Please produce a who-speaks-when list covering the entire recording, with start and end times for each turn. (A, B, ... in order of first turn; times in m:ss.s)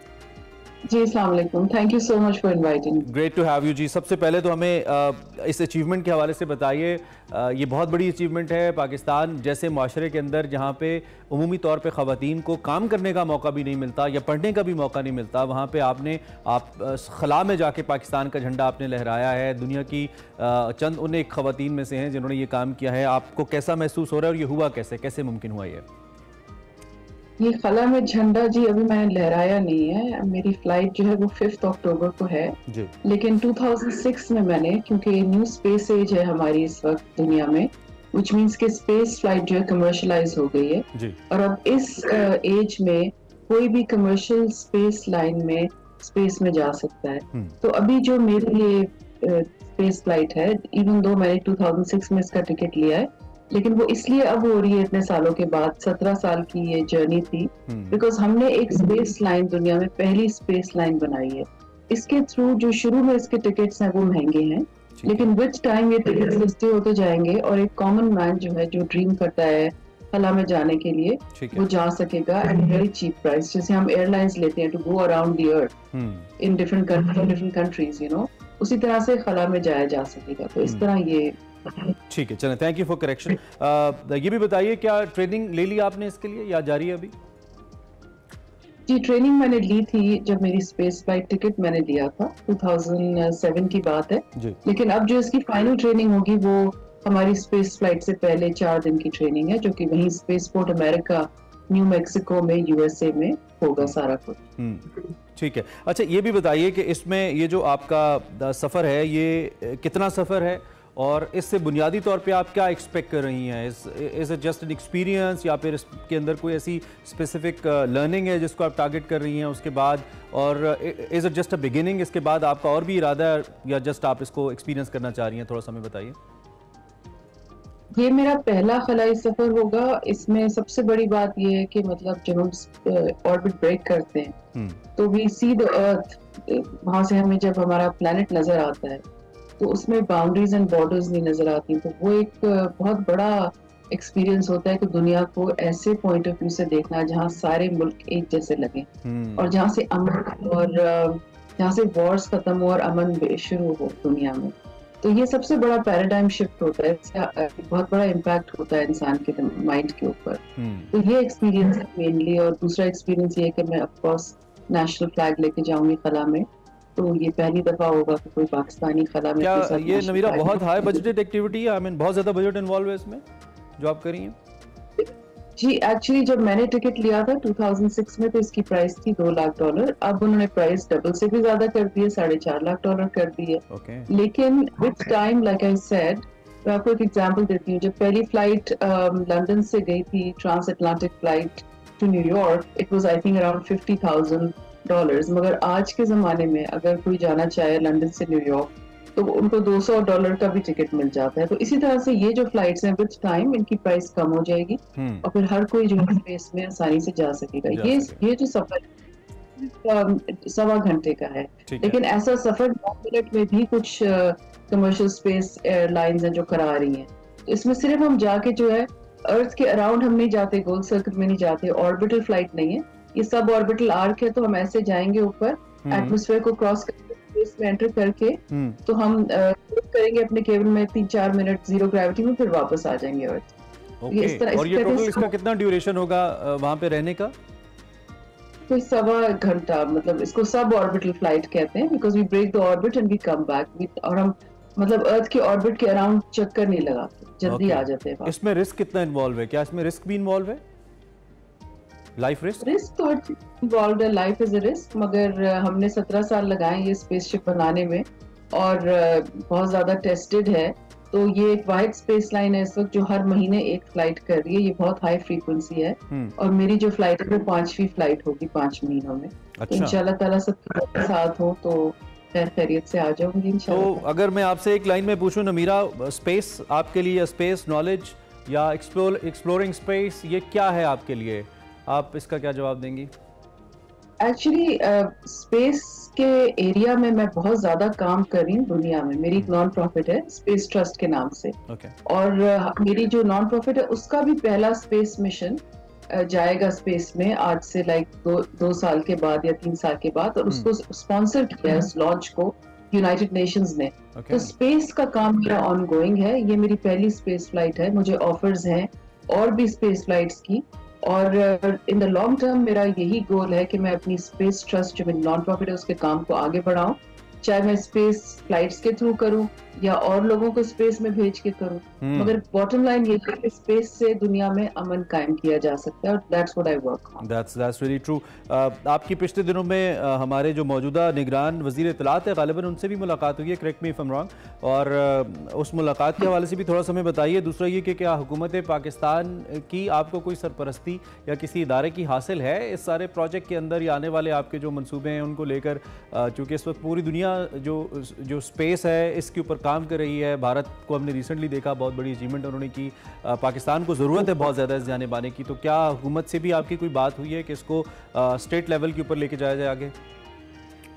0:00.9-0:03.1 A
0:03.0-0:25.8 B
0:27.4-1:15.7 A
0:32.7-0:32.9 B
0:40.9-0:41.2 B
0:57.7-0:58.0 B
1:05.0-1:05.3 B
1:11.3-1:11.6 B
1:15.9-1:16.3 B
1:16.4-1:21.8 A
1:22.1-1:27.1 B
1:28.9-1:44.4 A
1:44.6-2:06.2 B
2:07.9-2:14.4 A
2:14.5-2:14.8 B
2:15.0-2:19.0 A
2:19.6-2:51.0 A
2:29.0-2:29.5 B
2:40.6-2:40.9 B
2:49.4-2:53.2 B
2:53.8-2:54.4 B
2:55.0-3:28.8 A
3:03.7-3:04.1 B
3:25.0-3:25.2 B
3:27.7-3:28.2 B
3:29.6-3:53.5 A
3:31.7-3:32.0 B
3:45.8-3:46.2 B
3:48.5-3:48.8 B
3:54.0-3:57.3 B
3:54.1-3:55.3 A
3:58.7-4:08.3 A
4:07.4-4:10.6 B
4:12.2-4:12.6 B
4:12.6-4:34.0 A
4:29.6-4:30.0 B
4:33.7-4:43.1 B
4:44.2-5:27.2 A
4:51.7-4:51.9 B
5:04.1-5:04.5 B
5:22.0-5:22.3 B
5:27.2-5:59.9 B